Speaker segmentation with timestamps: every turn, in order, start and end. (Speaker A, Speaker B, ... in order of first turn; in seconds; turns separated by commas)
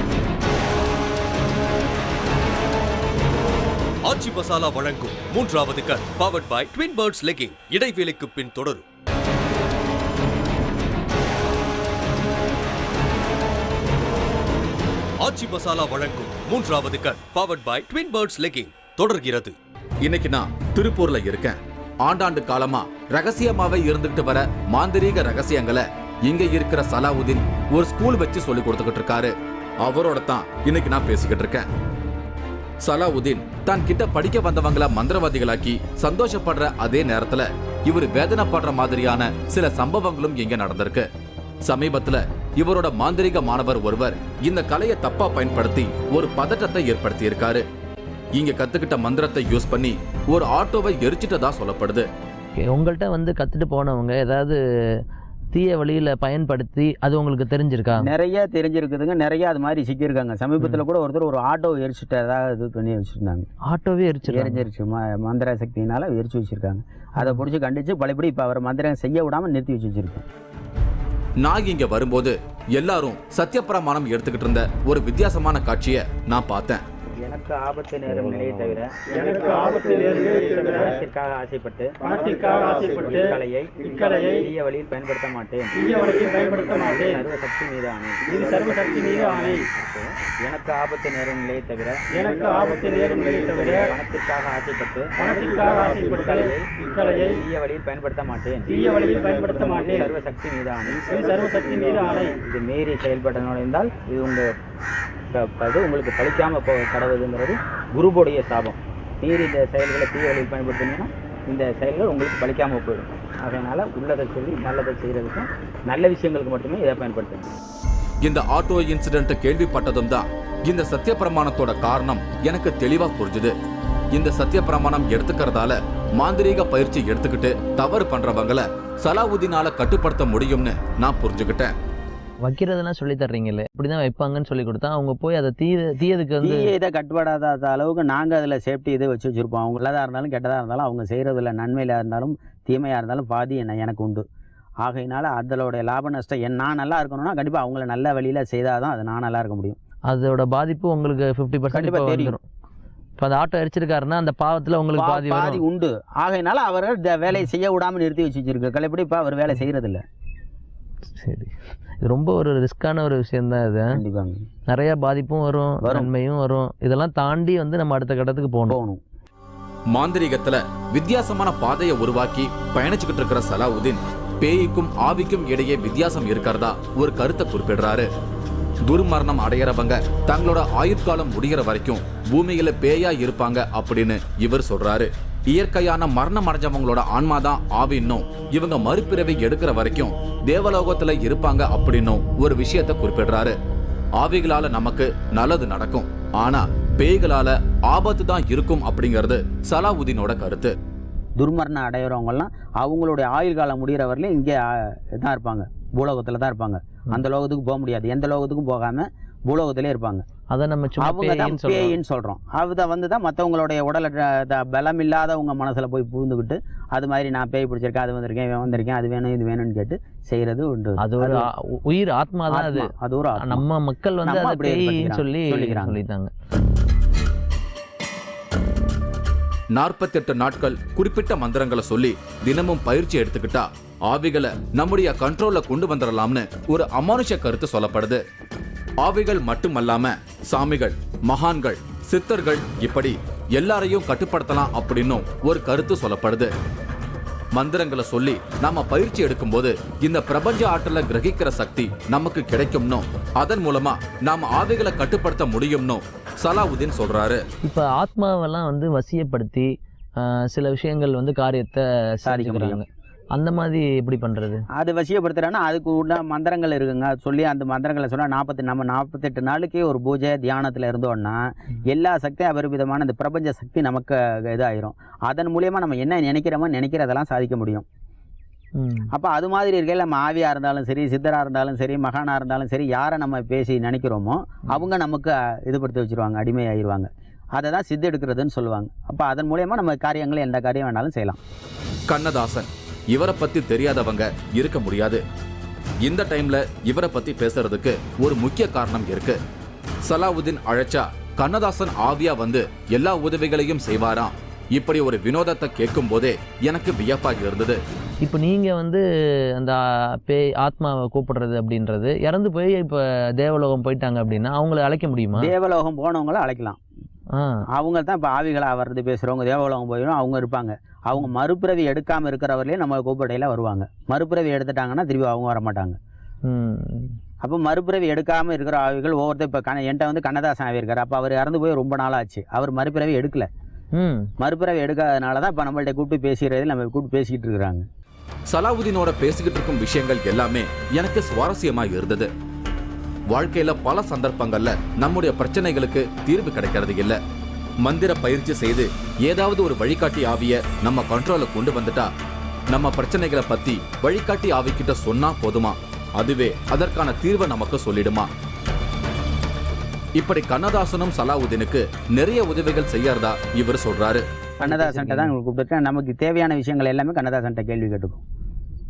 Speaker A: 4.0-8.8, Speaker A: 15.2-19.6, Speaker B: 20.0-31.7, Speaker B: 32.8-41.1, Speaker B: 41.6-47.6, Speaker B: 48.3-52.1, Speaker C: 52.6-54.6, Speaker C: 55.5-58.1, Speaker D: 58.0-63.5, Speaker C: 63.7-64.7, Speaker D: 64.3-70.2, Speaker C: 67.2-67.4, Speaker B: 71.4-76.8, Speaker D: 77.2-92.1, Speaker E: 79.1-80.9, Speaker E: 82.0-83.3, Speaker E: 84.0-84.4, Speaker E: 85.8-87.2, Speaker E: 88.3-89.6, Speaker E: 92.1-93.9, Speaker D: 93.0-104.5, Speaker E: 95.2-97.3, Speaker E: 98.7-100.1, Speaker E: 101.1-102.3, Speaker D: 105.3-117.5, Speaker B: 118.2-123.5, Speaker B: 124.1-131.7, Speaker C: 132.4-136.7, Speaker D: 136.4-144.2, Speaker D: 144.8-149.8, Speaker C: 150.1-152.4, Speaker D: 151.7-152.4, Speaker C: 153.2-155.6, Speaker D: 154.9-160.0, Speaker C: 161.2-164.0, Speaker D: 163.9-164.4, Speaker C: 164.7-168.8, Speaker D: 165.8-166.1, Speaker D: 168.7-169.0, Speaker B: 169.9-178.1, Speaker B: 178.9-193.6, Speaker B: 194.2-200.7, Speaker D: 201.4-210.2, Speaker C: 210.5-212.0, Speaker D: 211.0-221.5, Speaker C: 221.0-226.3, Speaker D: 222.5-223.7, Speaker D: 224.2-226.0, Speaker B: 229.8-238.2, Speaker B: 239.0-246.5, Speaker B: 247.5-257.4, Speaker C: 257.6-264.6, Speaker D: 262.3-262.8, Speaker D: 264.7-277.9, Speaker C: 278.8-279.1, Speaker D: 279.1-291.4, Speaker B: 292.1-295.2, Speaker B: 296.1-299.4, Speaker B: 300.1-307.8, Speaker C: 308.2-309.0, Speaker C: 309.6-315.5, Speaker D: 315.4-316.8, Speaker C: 317.4-317.6, Speaker D: 317.8-326.0, Speaker C: 326.5-327.1, Speaker D: 327.4-333.5, Speaker C: 334.0-334.3, Speaker D: 334.4-337.9, Speaker B: 338.5-342.3, Speaker B: 343.3-347.2, Speaker B: 347.8-352.1, Speaker B: 352.7-358.3, Speaker B: 360.2-364.2, Speaker D: 364.6-368.2, Speaker C: 364.6-365.3